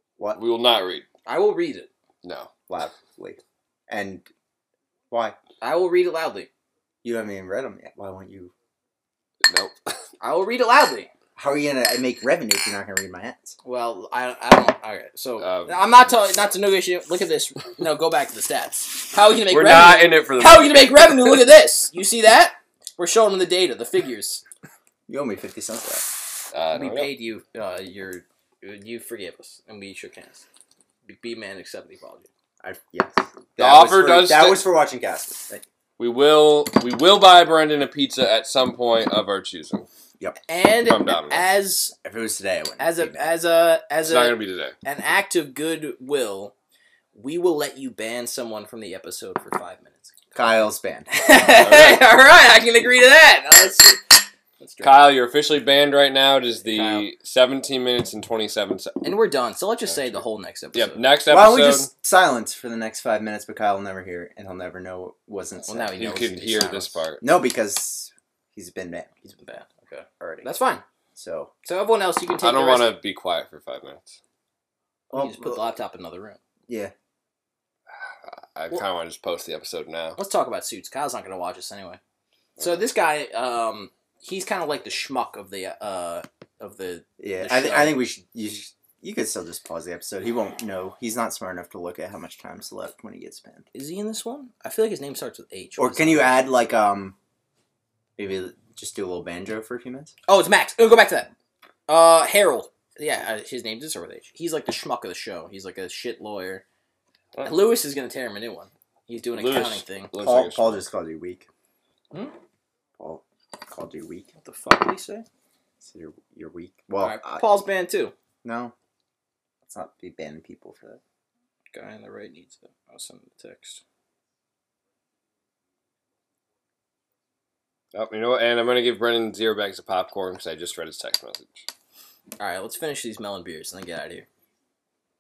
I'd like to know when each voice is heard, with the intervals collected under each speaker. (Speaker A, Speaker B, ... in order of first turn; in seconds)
Speaker A: 0.3-1.1, 2.2-2.5, 9.5-9.8, 15.4-15.9, 19.5-21.4, 26.5-27.1, 33.6-34.6, 36.0-39.9, 40.8-41.5, 44.0-44.8, 51.5-52.0, 54.8-59.0, 59.9-60.2, 60.7-61.9, 66.0-67.2, 72.4-74.2, 78.2-80.2, 107.3-107.6, 109.3-110.9, 127.9-131.7
Speaker B: 1.3-1.9, 5.6-6.5, 10.2-11.1, 13.6-24.4, 26.7-30.4, 31.1-32.3, 40.5-42.0, 42.8-46.5, 47.1-55.1, 56.6-57.1, 59.0-61.0, 65.7-67.1, 69.2-70.8, 71.7-73.0, 75.1-76.4, 80.2-82.0, 82.6-88.0, 93.7-96.5, 100.3-101.3, 101.9-106.6, 107.4-110.2, 114.4-115.3, 117.0-118.1, 121.7-123.8, 132.4-134.3
Speaker C: 2.7-4.3, 5.1-5.4, 7.0-8.5, 11.4-13.6, 25.1-26.1, 32.6-35.6, 42.0-43.3, 50.4-51.2, 61.3-66.0, 67.2-69.1, 70.2-70.5, 71.2-71.5, 75.1-75.7, 76.7-76.9, 87.2-93.7, 95.8-97.2, 98.2-100.1, 110.2-111.5, 113.0-114.3, 115.8-117.4, 118.4-118.7, 119.7-121.0